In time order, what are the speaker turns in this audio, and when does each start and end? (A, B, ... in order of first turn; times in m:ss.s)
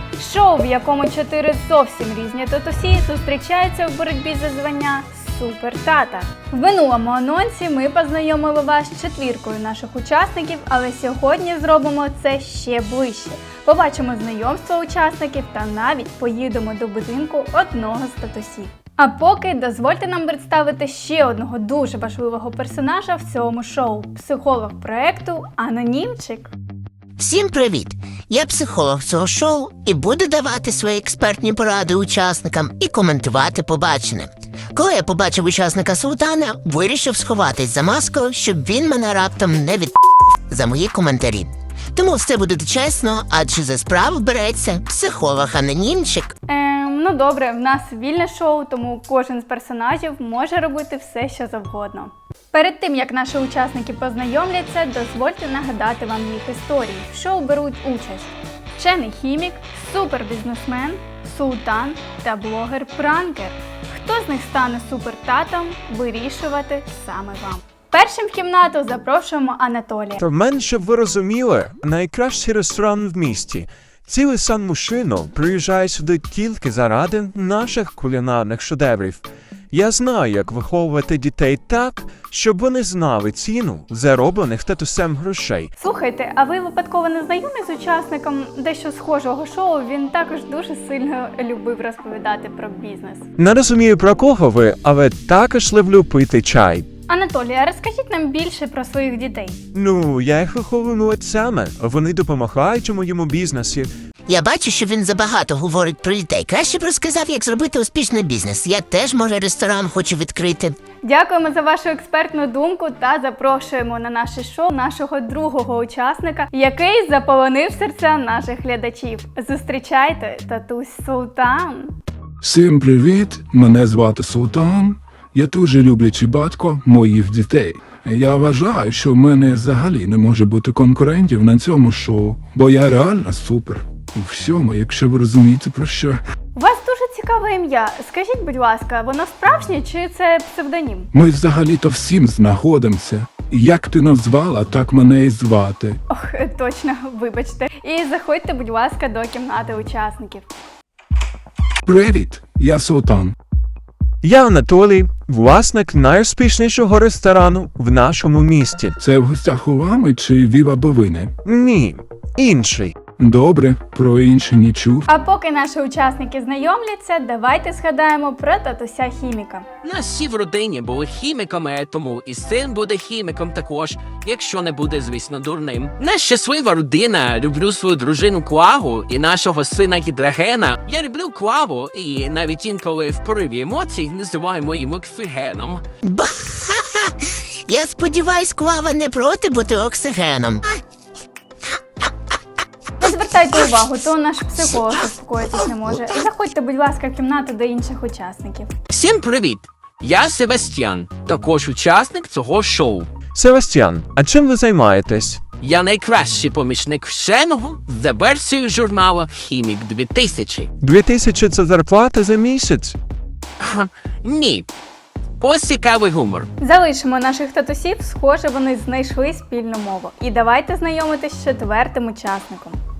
0:00.2-0:26.5 A
0:27.2-0:39.9 B
0:40.5-0:46.3 B
0:46.5-1:10.2 A
1:10.2-1:25.7 C
1:25.8-1:33.3 A
1:33.4-1:36.9 C
1:37.1-1:39.6 A
1:39.7-1:43.9 C
1:44.3-1:50.8 B
1:51.0-2:01.9 A
2:02.4-2:16.2 D
2:16.6-2:21.1 A
2:21.1-2:26.0 D
2:26.1-2:30.4 A
2:31.8-2:33.3 D
2:34.2-2:38.9 C
2:39.0-2:41.3 D
2:41.4-2:42.9 C
2:43.2-2:45.0 D
2:45.1-2:49.6 A
2:49.8-3:05.8 E
3:06.0-3:10.6 B
3:13.0-3:18.7 A
3:18.9-3:23.1 E
3:23.3-3:25.4 C
3:25.6-3:30.7 E
3:30.8-3:33.0 C
3:33.6-3:34.7 E
3:35.4-3:36.5 E
3:36.6-3:42.8 A